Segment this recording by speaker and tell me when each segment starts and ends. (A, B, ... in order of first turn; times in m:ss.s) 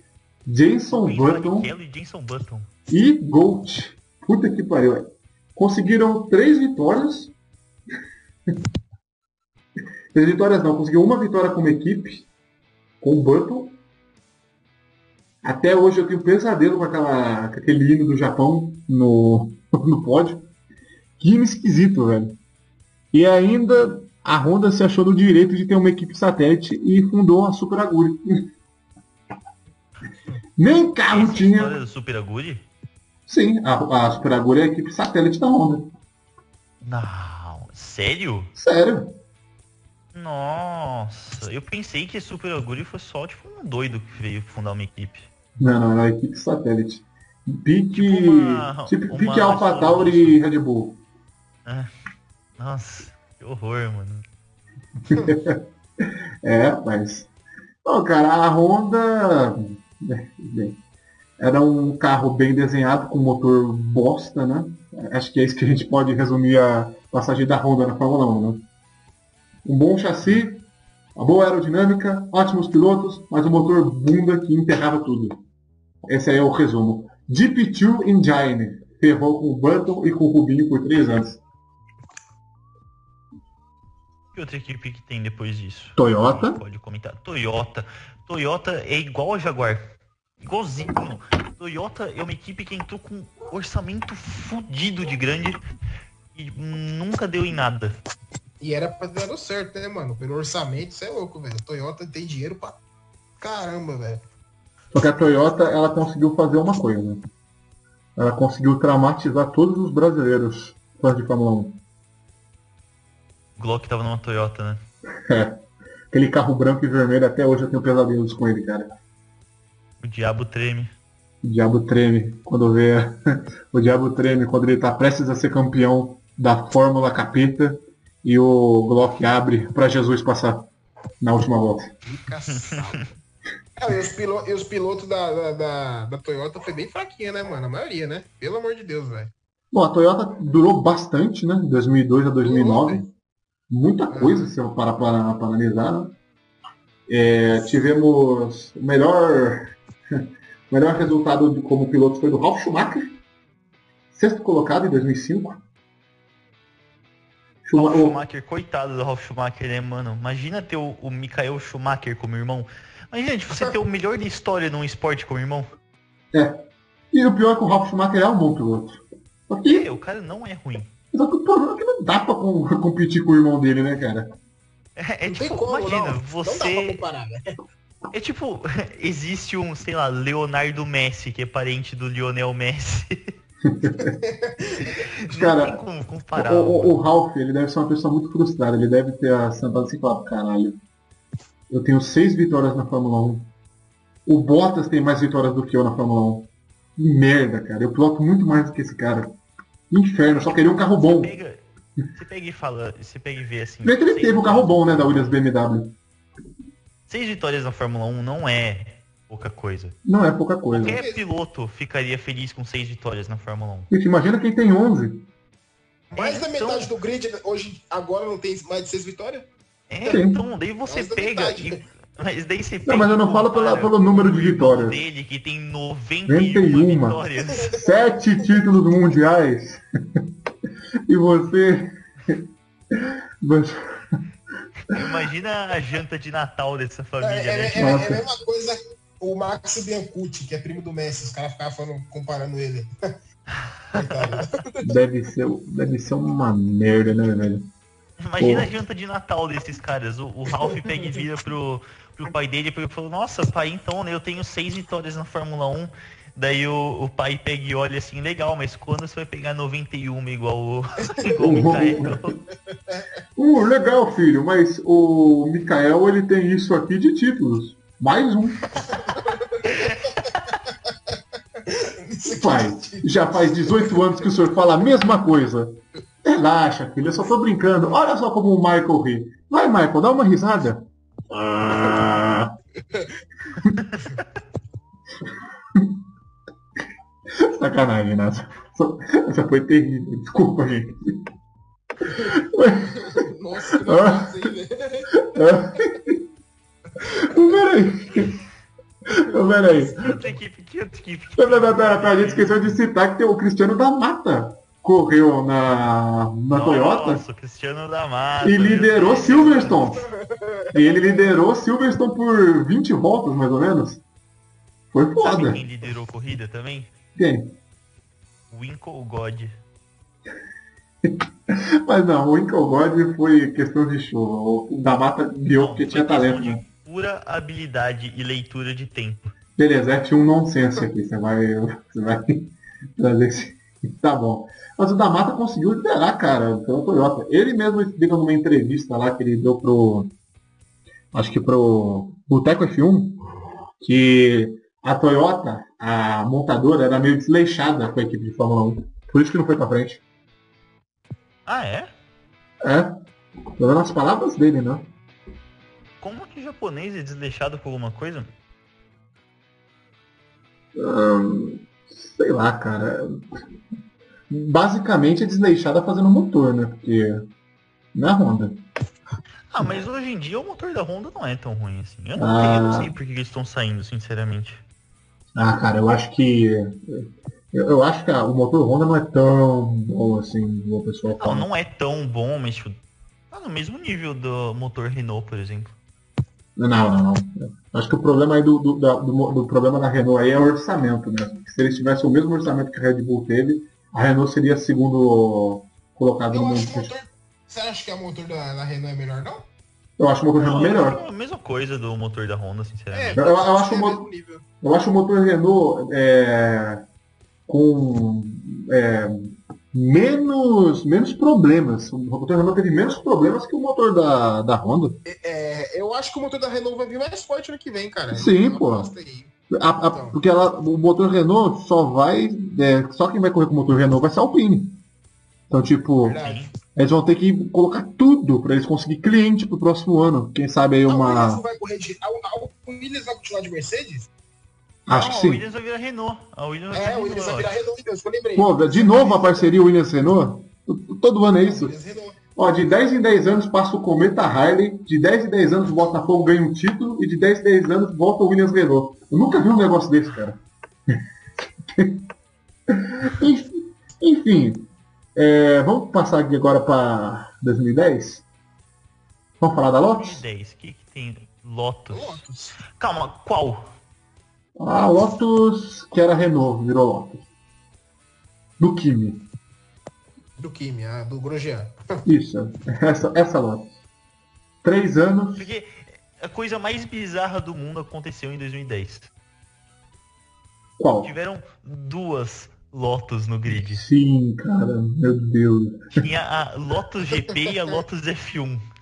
0:00.4-0:01.7 A
0:00.9-0:02.7 B
0:02.9-0:07.3 A
0:10.1-0:12.3 A
0:13.0-0:13.8 A
0:15.4-0:20.5 A
0:21.2-0:22.4 A
0:23.1-0:28.4 A
0:30.6-0:31.8 A
0:31.1-0:32.6 B
0:33.3-0:35.9 A
0:36.8-0:38.5 B
0:38.6-0:39.1 A
0:40.1-0:45.3 B
0:45.6-0:51.0 A
0:47.9-0:50.4 B
0:52.6-0:54.2 B
0:55.1-0:57.3 A
0:57.8-1:00.8 A
1:01.4-1:08.6 A
1:09.6-1:15.4 A
1:16.0-1:21.4 A
1:24.3-1:29.8 B
1:26.0-1:26.6 A
1:30.4-1:35.6 B
1:36.3-1:38.0 B
1:38.6-1:42.8 C
1:43.4-1:44.2 C
1:44.9-1:47.2 A
1:48.2-1:51.8 A
1:53.6-1:54.8 B
1:55.3-1:55.6 A
1:56.1-1:58.9 A
2:00.0-2:00.9 B
2:01.4-2:03.2 A
2:03.7-2:10.7 A
2:11.2-2:11.9 A
2:12.0-2:13.1 C
2:12.5-2:13.0 B
2:13.8-2:19.3 C
2:19.7-2:23.0 A
2:22.4-2:23.0 C
2:23.7-2:26.1 A
2:24.1-2:24.5 C
2:27.1-2:33.1 A
2:34.1-2:35.6 A
2:37.6-2:38.2 A
2:37.7-2:45.7 B
2:46.3-2:46.6 A
2:47.1-2:49.9 A
2:49.6-2:50.9 B
2:51.1-2:54.3 A
2:55.0-2:57.0 B
2:55.3-2:57.4 C
2:58.1-3:03.3 B
3:03.6-3:04.2 A
3:04.2-3:05.0 C
3:04.9-3:07.0 B
3:05.3-3:05.8 A
3:06.3-3:10.8 A
3:11.7-3:13.5 A
3:14.2-3:19.3 A
3:19.9-3:21.3 A
3:20.3-3:21.6 B
3:22.1-3:25.4 B
3:23.8-3:26.0 A
3:27.1-3:30.0 B
3:30.0-3:31.0 A
3:30.7-3:33.9 B
3:30.8-3:31.2 C
3:33.9-3:35.2 A
3:36.1-3:39.5 C
3:36.2-3:36.9 B
3:39.9-3:47.7 B
3:40.1-3:40.4 A
3:40.9-3:41.8 C
3:42.9-3:45.0 A
3:46.3-3:50.2 A
3:47.5-3:48.0 C
3:51.1-3:54.2 A
3:54.9-3:58.0 B
3:57.2-4:02.9 C
3:57.8-3:58.2 A
4:03.7-4:04.4 B
4:03.9-4:04.8 C
4:04.8-4:07.6 A
4:08.2-4:22.4 B
4:08.4-4:08.7 A
4:21.2-4:22.1 C
4:21.4-4:22.2 A
4:22.7-4:23.0 C
4:23.4-4:28.7 A
4:28.9-4:29.7 C
4:29.6-4:30.6 B
4:31.6-4:34.1 C
4:32.3-4:42.5 A
4:43.7-4:44.2 B
4:47.4-4:51.2 A
4:52.1-4:54.5 A
4:52.9-4:55.3 C
4:55.2-4:56.2 A
4:57.0-4:57.4 C
4:57.0-4:58.4 A
4:59.1-5:00.2 A
4:59.7-5:02.8 B
5:01.4-5:07.2 A
5:06.5-5:09.9 B
5:08.4-5:10.0 A
5:09.3-5:11.4 C
5:10.7-5:14.0 A
5:14.9-5:15.6 A
5:15.2-5:16.9 B
5:17.2-5:17.5 A
5:18.5-5:19.5 B
5:21.0-5:26.6 A
5:25.5-5:29.3 B
5:29.6-5:40.1 A
5:41.1-5:43.2 A
5:43.8-5:50.0 A
5:51.4-5:51.9 B
5:52.6-5:53.0 A
5:53.6-5:54.9 A
5:56.0-5:58.3 B
6:00.7-6:03.2 A
6:04.3-6:07.1 A
6:07.9-6:08.6 A
6:09.5-6:14.6 B
6:12.2-6:12.9 A
6:15.4-6:21.5 A
6:21.1-6:22.8 B
6:23.3-6:25.8 B
6:26.6-6:36.9 A
6:36.3-6:39.5 C
6:40.0-6:41.0 A
6:40.4-6:43.2 B
6:42.9-6:44.4 C
6:43.2-6:44.0 A
6:44.6-6:46.8 A
6:47.5-6:55.0 A
6:55.0-6:59.3 C
6:58.1-6:58.9 A
6:59.5-7:04.8 A
6:59.9-7:00.2 C
7:05.5-7:06.2 A
7:06.0-7:06.5 C
7:06.2-7:06.5 B
7:06.7-7:11.4 A
7:10.8-7:14.1 C
7:14.8-7:15.4 A
7:14.9-7:17.6 B
7:16.7-7:19.6 C
7:18.4-7:21.7 A
7:21.4-7:22.2 C
7:22.4-7:30.4 A
7:31.7-7:32.0 A
7:32.7-7:38.2 A
7:39.4-7:40.2 A
7:39.9-7:42.2 B
7:41.9-7:42.6 C
7:42.7-7:43.7 B
7:44.6-7:47.2 A
7:48.6-7:49.2 A
7:50.4-7:52.0 C
7:52.0-7:53.7 A
7:54.6-7:55.4 A
7:55.4-7:59.1 B
8:00.8-8:01.1 A
8:01.0-8:03.8 B
8:03.5-8:05.8 A
8:06.0-8:08.6 B